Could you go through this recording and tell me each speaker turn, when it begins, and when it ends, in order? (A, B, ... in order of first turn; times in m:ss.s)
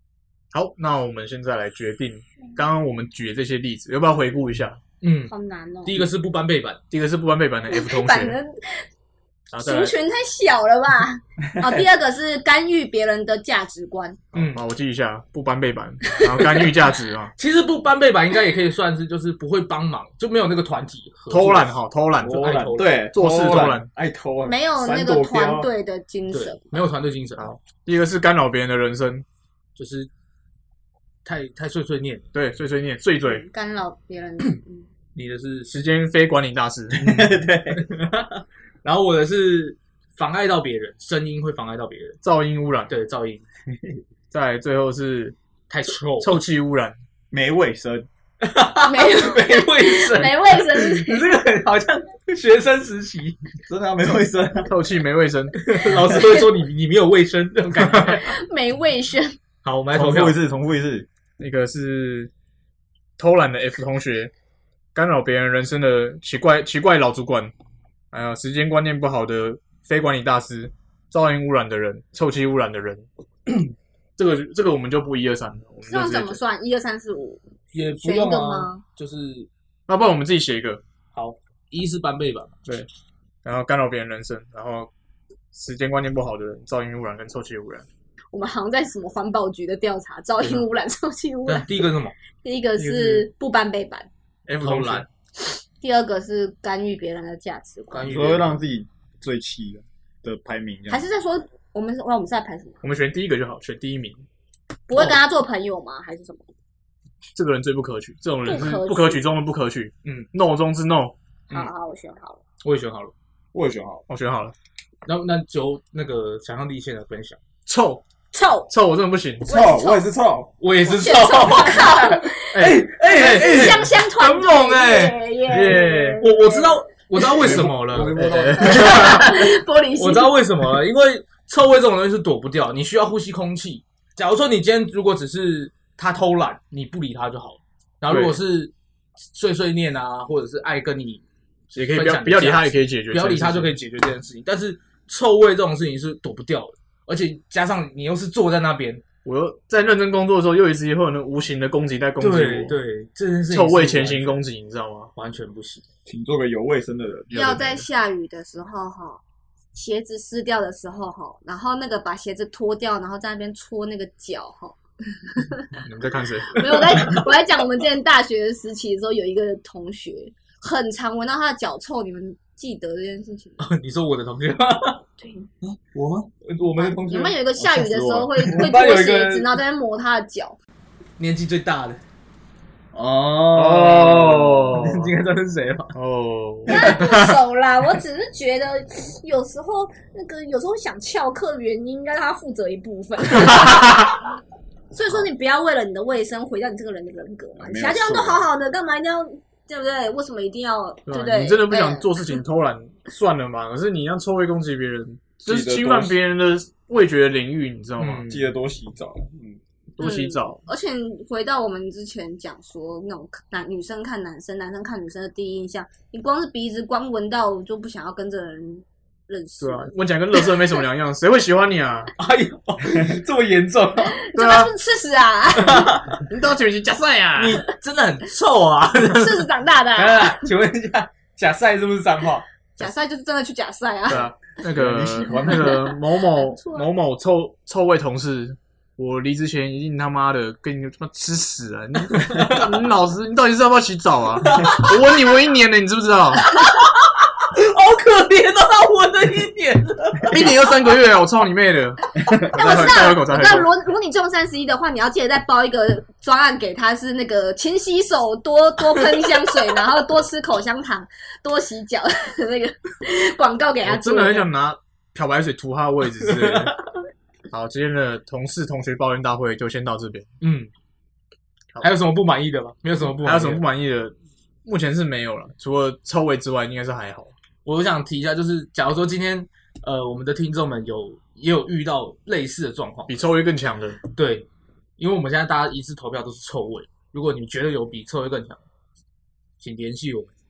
0:00.5-0:04.8 A
0:05.0-0:05.3 B
0:05.3-0:06.1 C
0:05.8-0:06.8 B
0:06.9-0:08.4 A
0:07.7-0:08.9 C
0:09.5-0:10.0 A
0:09.6-0:14.2 C
0:11.6-0:11.8 D
0:14.3-0:14.6 B
0:14.3-0:17.3 A
0:17.4-0:23.1 B
0:21.3-0:23.9 A
0:22.2-0:25.7 D
0:24.4-0:26.8 C
0:26.3-0:27.5 B
0:27.4-0:29.2 A
0:29.8-0:30.1 B
0:31.2-0:32.2 B
0:32.3-0:33.4 A
0:33.2-0:34.9 C
0:35.1-0:35.8 B
0:35.7-0:37.0 A
0:36.9-0:37.8 D
0:37.0-0:42.2 B
0:42.2-0:42.9 A
0:42.9-0:43.4 B
0:44.3-0:45.4 A
0:45.7-0:46.4 B
0:46.2-0:47.0 A
0:47.3-0:48.1 D
0:48.4-0:53.4 B
0:48.8-0:51.3 C
0:53.7-0:54.7 D
0:54.6-0:55.6 A
0:55.6-0:58.3 B
0:58.2-0:59.4 C
0:59.6-1:00.3 B
0:59.9-1:00.3 A
1:00.0-1:01.0 D
1:01.4-1:02.3 A
1:03.2-1:04.3 A
1:04.9-1:07.5 A
1:08.1-1:16.4 A
1:15.9-1:18.8 C
1:17.7-1:19.5 B
1:19.9-1:20.8 A
1:21.1-1:22.6 B
1:23.4-1:24.9 A
1:25.5-1:27.8 A
1:28.3-1:31.9 C
1:31.5-1:32.1 B
1:32.4-1:34.1 C
1:32.8-1:33.3 A
1:34.5-1:35.1 A
1:34.6-1:35.0 B
1:35.8-1:38.3 C
1:37.9-1:38.6 B
1:38.0-1:41.0 D
1:40.9-1:42.8 C
1:42.8-1:44.2 A
1:44.9-1:46.5 C
1:47.3-1:51.7 A
1:48.4-1:49.2 C
1:51.5-1:52.4 C
1:52.6-1:53.1 B
1:53.5-1:54.0 D
1:54.1-1:54.5 A
1:55.0-1:57.4 B
1:57.6-1:58.0 A
1:58.3-1:58.7 C
1:58.7-1:59.5 A
1:59.4-2:00.5 D
1:59.5-2:00.1 C
2:00.6-2:05.2 B
2:00.8-2:07.3 C
2:02.5-2:03.8 A
2:05.5-2:06.2 A
2:06.2-2:08.2 B
2:07.4-2:09.2 D
2:08.0-2:09.3 A
2:08.6-2:10.4 C
2:09.0-2:09.4 B
2:10.0-2:18.7 B
2:18.1-2:18.4 A
2:19.3-2:29.0 B
2:21.7-2:23.7 A
2:29.2-2:32.8 A
2:32.2-2:34.4 B
2:33.5-2:35.1 A
2:35.1-2:35.8 B
2:36.1-2:37.3 D
2:37.3-2:37.8 A
2:37.3-2:39.2 C
2:39.7-2:45.7 C
2:45.8-2:47.2 A
2:46.5-2:53.6 C
2:53.6-2:55.0 B
2:55.2-2:55.5 C
2:55.6-2:56.3 D
2:56.4-2:57.4 B
2:56.8-3:00.6 C
2:57.6-2:58.7 D
2:58.4-2:59.5 B
3:01.2-3:02.0 B
3:02.9-3:04.3 D
3:03.5-3:05.1 A
3:03.7-3:05.9 B
3:05.9-3:07.4 A
3:06.7-3:14.2 C
3:13.6-3:14.1 A
3:14.9-3:22.3 C
3:17.6-3:18.4 D
3:21.1-3:28.3 A
3:25.4-3:26.2 D
3:28.0-3:28.4 B
3:28.3-3:29.6 D
3:30.0-3:30.6 A
3:30.0-3:39.9 C
3:39.6-3:42.1 A
3:42.2-3:44.2 B
3:44.1-3:46.0 C
3:44.3-3:44.7 A
3:45.6-3:46.2 B
3:46.2-3:47.6 A
3:47.4-3:52.4 B
3:49.1-3:50.5 C
3:52.8-3:54.3 C
3:54.1-4:06.6 A
3:54.7-3:55.9 D
3:55.9-3:56.9 C
4:02.1-4:02.7 B
4:04.4-4:05.0 B
4:06.5-4:10.5 B
4:10.2-4:13.7 A
4:12.3-4:24.5 C
4:23.8-4:26.8 A
4:26.2-4:26.8 B
4:27.5-4:30.3 A
4:30.4-4:30.7 B
4:31.8-4:33.6 B
4:33.2-4:34.1 A
4:34.6-4:37.3 A
4:37.6-4:43.1 B
4:43.1-4:44.0 A
4:44.1-4:44.5 B
4:45.0-4:48.6 B
4:49.6-4:50.3 B